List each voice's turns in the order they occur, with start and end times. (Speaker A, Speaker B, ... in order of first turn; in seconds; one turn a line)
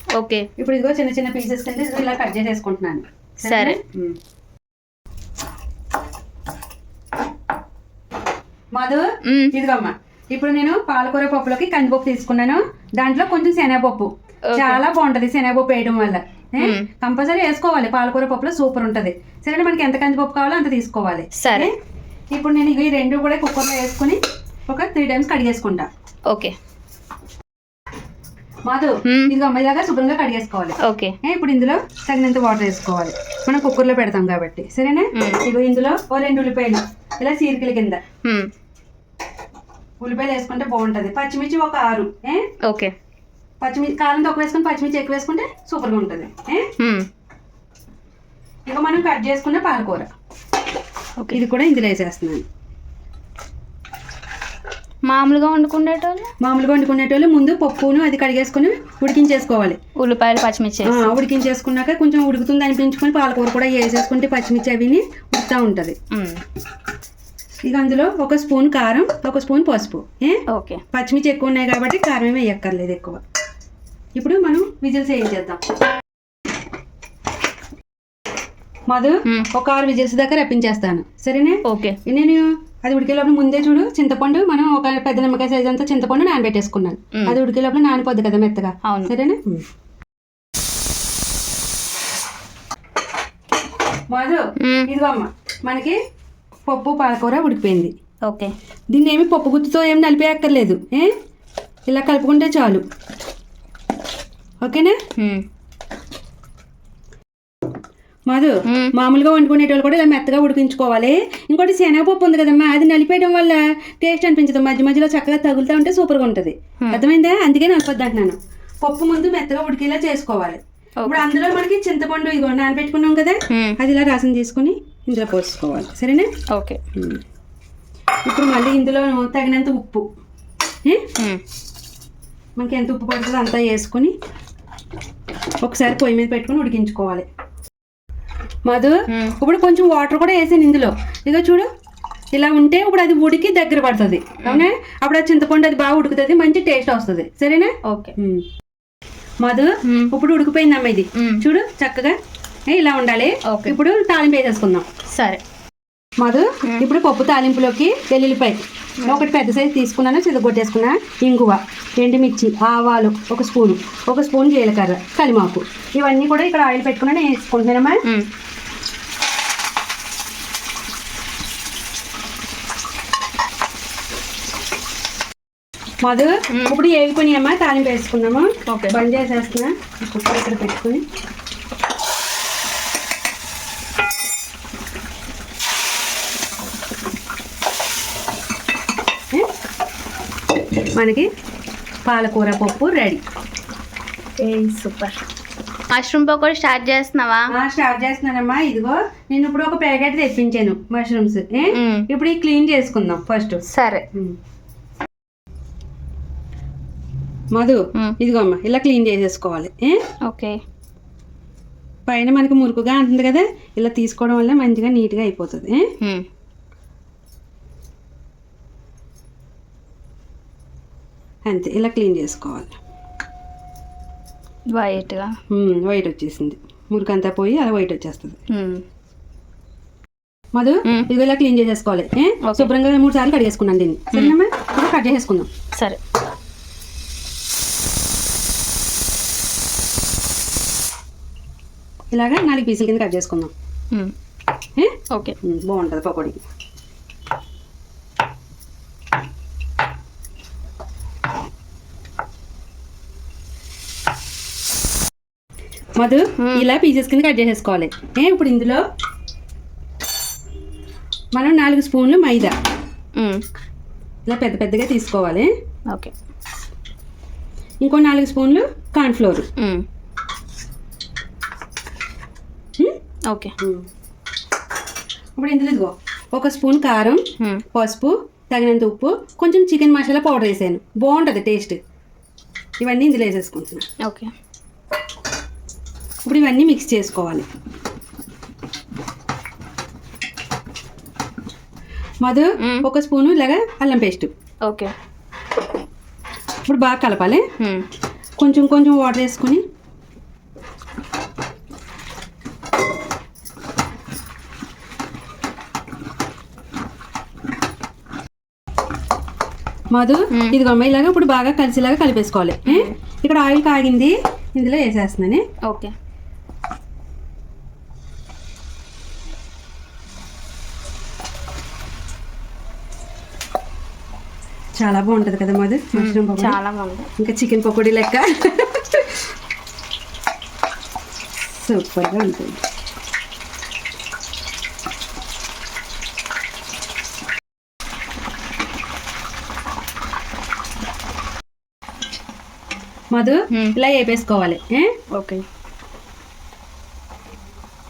Speaker A: 0.1-0.5
Speaker B: 0.6-4.2
Speaker A: 3.4-3.8
Speaker B: 8.7-21.7
Speaker A: 9.2-9.5
Speaker A: 14.5-14.8
Speaker A: 16.6-16.9
Speaker A: 21.4-21.7
Speaker B: 22.3-25.9
Speaker A: 26.3-26.6
Speaker B: 28.6-38.0
Speaker A: 29.1-29.3
Speaker A: 30.8-31.1
Speaker A: 35.1-35.4
Speaker A: 38.2-38.5
Speaker B: 40.0-42.5
Speaker A: 42.6-42.9
Speaker B: 43.6-46.7
Speaker A: 46.8-47.1
Speaker B: 48.7-50.1
Speaker B: 51.3-52.4
Speaker A: 55.0-56.3
Speaker B: 56.4-59.8
Speaker A: 60.0-61.1
Speaker B: 60.8-66.0
Speaker A: 66.1-66.4
Speaker B: 67.6-70.4
Speaker A: 70.5-70.8
Speaker B: 70.9-73.2
Speaker B: 74.2-75.6
Speaker B: 78.9-89.6
Speaker A: 81.6-82.0
Speaker A: 88.8-89.1
Speaker B: 94.1-96.0
Speaker A: 94.6-94.9
Speaker B: 96.7-97.9
Speaker A: 98.2-98.5
Speaker B: 98.9-101.1
Speaker B: 101.9-102.8
Speaker B: 104.6-105.0
Speaker A: 105.2-105.4
Speaker B: 108.3-126.3
Speaker A: 123.5-123.8
Speaker A: 126.5-126.8
Speaker B: 127.0-127.2
Speaker B: 128.2-130.0
Speaker B: 132.6-134.1
Speaker B: 135.6-137.2
Speaker B: 138.7-141.7
Speaker A: 139.1-139.3
Speaker B: 142.3-148.4
Speaker A: 147.8-148.1
Speaker B: 149.4-152.1
Speaker A: 149.8-150.1
Speaker A: 151.1-151.4
Speaker B: 152.7-154.8
Speaker A: 153.5-153.8
Speaker A: 155.1-155.4
Speaker B: 156.2-168.0
Speaker A: 168.0-168.3
Speaker B: 176.0-181.0
Speaker A: 176.5-176.8
Speaker A: 178.7-179.0
Speaker B: 190.9-191.3
Speaker B: 192.1-193.2
Speaker A: 194.4-195.2
Speaker A: 195.9-197.5
Speaker B: 197.5-203.6
Speaker A: 201.7-202.1
Speaker A: 203.7-204.1
Speaker B: 207.5-210.0
Speaker A: 210.2-210.6
Speaker B: 212.1-215.9
Speaker A: 216.0-216.2
Speaker B: 221.5-222.7
Speaker A: 224.7-225.3
Speaker B: 225.5-228.4
Speaker A: 228.5-228.8
Speaker B: 230.5-235.5
Speaker A: 232.4-232.7
Speaker B: 242.1-243.5
Speaker B: 244.8-246.4
Speaker A: 245.1-245.4
Speaker B: 256.0-258.8
Speaker A: 256.4-256.6
Speaker B: 261.3-262.5
Speaker A: 263.2-263.4
Speaker B: 264.3-265.5
Speaker B: 267.8-269.4
Speaker A: 269.6-269.8
Speaker A: 273.3-273.5
Speaker B: 273.6-273.9
Speaker B: 275.4-281.8
Speaker B: 282.8-283.9
Speaker A: 284.0-284.3
Speaker B: 286.2-287.4
Speaker B: 292.2-294.3
Speaker A: 292.6-292.8
Speaker A: 294.6-294.9
Speaker B: 296.6-297.4
Speaker A: 297.6-297.9
Speaker B: 298.4-299.6
Speaker B: 309.9-315.4
Speaker A: 310.3-310.6
Speaker A: 312.6-312.9
Speaker A: 315.7-315.9
Speaker B: 324.8-326.6
Speaker A: 325.9-327.1
Speaker B: 327.2-329.1
Speaker B: 331.5-332.6
Speaker B: 343.1-344.9
Speaker A: 343.5-343.8
Speaker A: 345.1-345.4